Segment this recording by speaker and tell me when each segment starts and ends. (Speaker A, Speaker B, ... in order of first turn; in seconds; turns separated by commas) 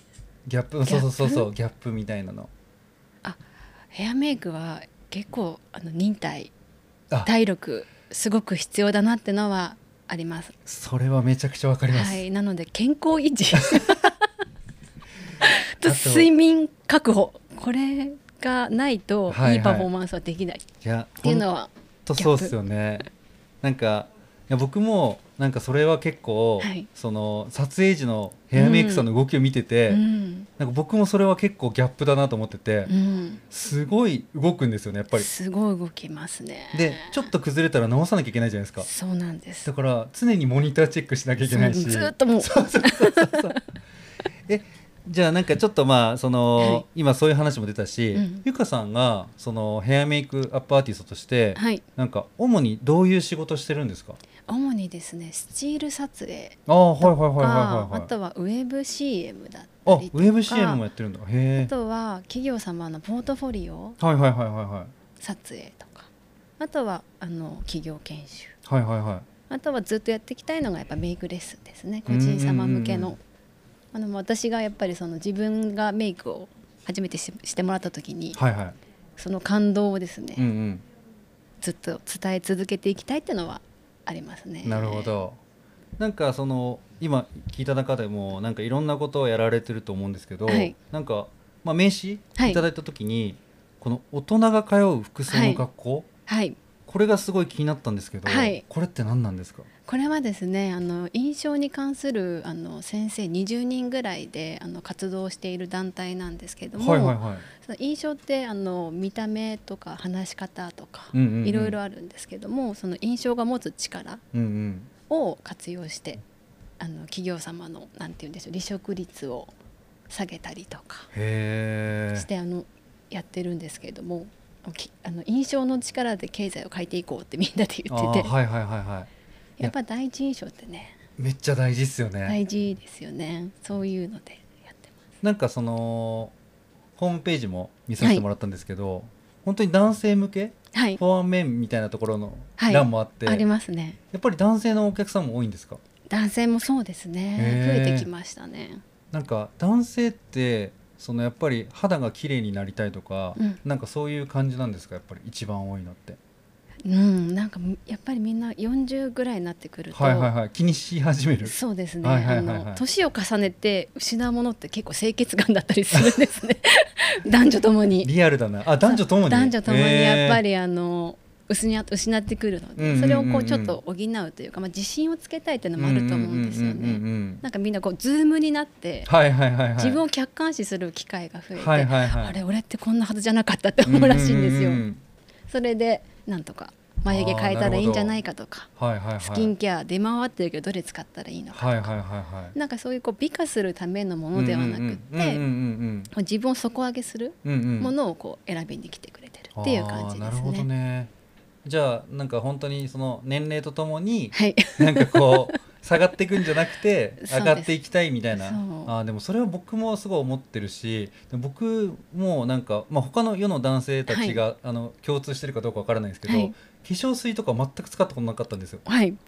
Speaker A: 0.5-2.5, Speaker B: 0.8-1.5, Speaker B: 3.9-6.5, Speaker B: 7.2-10.5, Speaker A: 10.7-12.2, Speaker B: 11.9-14.2, Speaker A: 13.6-14.0, Speaker B: 15.4-20.6, Speaker A: 15.8-16.3, Speaker A: 19.3-19.9, Speaker A: 20.8-21.5, Speaker B: 21.2-22.6, Speaker A: 22.1-23.1, Speaker A: 23.6-30.0, Speaker B: 26.6-26.9, Speaker B: 28.5-29.1, Speaker B: 29.9-30.5, Speaker A: 30.6-32.9, Speaker B: 32.9-33.4, Speaker A: 33.5-35.3, Speaker B: 35.1-37.3, Speaker A: 36.7-38.9, Speaker B: 38.8-39.7, Speaker A: 39.6-43.6, Speaker B: 41.4-43.6, Speaker A: 44.5-54.2, Speaker B: 46.6-46.8, Speaker B: 48.1-48.4, Speaker B: 51.5-51.8, Speaker B: 54.5-60.8, Speaker A: 56.7-58.1, Speaker A: 59.8-61.7, Speaker B: 61.6-64.0, Speaker A: 64.0-64.9, Speaker B: 65.2-68.5, Speaker A: 68.7-69.2, Speaker B: 69.5-73.2, Speaker A: 72.0-73.1, Speaker B: 73.9-78.4, Speaker A: 78.3-78.8, Speaker B: 79.2-80.5, Speaker A: 80.3-80.8, Speaker B: 81.6-85.1, Speaker A: 84.6-85.4, Speaker A: 86.0-96.1, Speaker B: 90.5-90.7, Speaker B: 92.3-92.6, Speaker B: 95.3-95.6, Speaker B: 96.3-96.6, Speaker A: 96.8-99.7, Speaker B: 98.2-98.6, Speaker B: 99.9-114.2, Speaker A: 106.8-107.5, Speaker A: 111.1-111.8, Speaker A: 114.3-114.9, Speaker B: 115.1-116.2, Speaker B: 116.8-119.5, Speaker B: 120.1-121.1, Speaker A: 121.1-122.3, Speaker B: 122.1-128.3, Speaker A: 127.9-129.1, Speaker B: 129.6-130.9, Speaker A: 131.2-132.4, Speaker B: 132.2-134.8, Speaker A: 135.2-136.3, Speaker A: 137.0-143.5, Speaker B: 138.0-138.2, Speaker B: 140.7-141.0, Speaker B: 142.6-144.0, Speaker A: 144.1-145.8, Speaker B: 146.1-148.8, Speaker A: 147.4-148.1, Speaker A: 149.1-156.2, Speaker B: 156.8-160.3, Speaker A: 159.9-162.8, Speaker B: 161.4-168.1, Speaker A: 168.0-170.4, Speaker B: 168.8-179.1, Speaker A: 172.8-173.8, Speaker A: 175.8-177.4, Speaker A: 179.1-180.0, Speaker B: 179.8-184.8, Speaker A: 181.5-182.4, Speaker A: 183.8-185.0, Speaker B: 185.5-188.7, Speaker A: 187.1-188.2, Speaker A: 188.8-189.5, Speaker B: 189.2-191.9, Speaker A: 191.5-192.5, Speaker B: 192.5-195.4, Speaker A: 194.3-196.1, Speaker B: 196.1-200.7, Speaker A: 197.4-197.9, Speaker A: 199.6-201.1, Speaker A: 201.6-218.8, Speaker B: 204.3-205.6, Speaker B: 207.2-207.7, Speaker B: 208.3-208.9, Speaker B: 214.1-214.4, Speaker B: 216.2-216.5, Speaker B: 218.8-219.2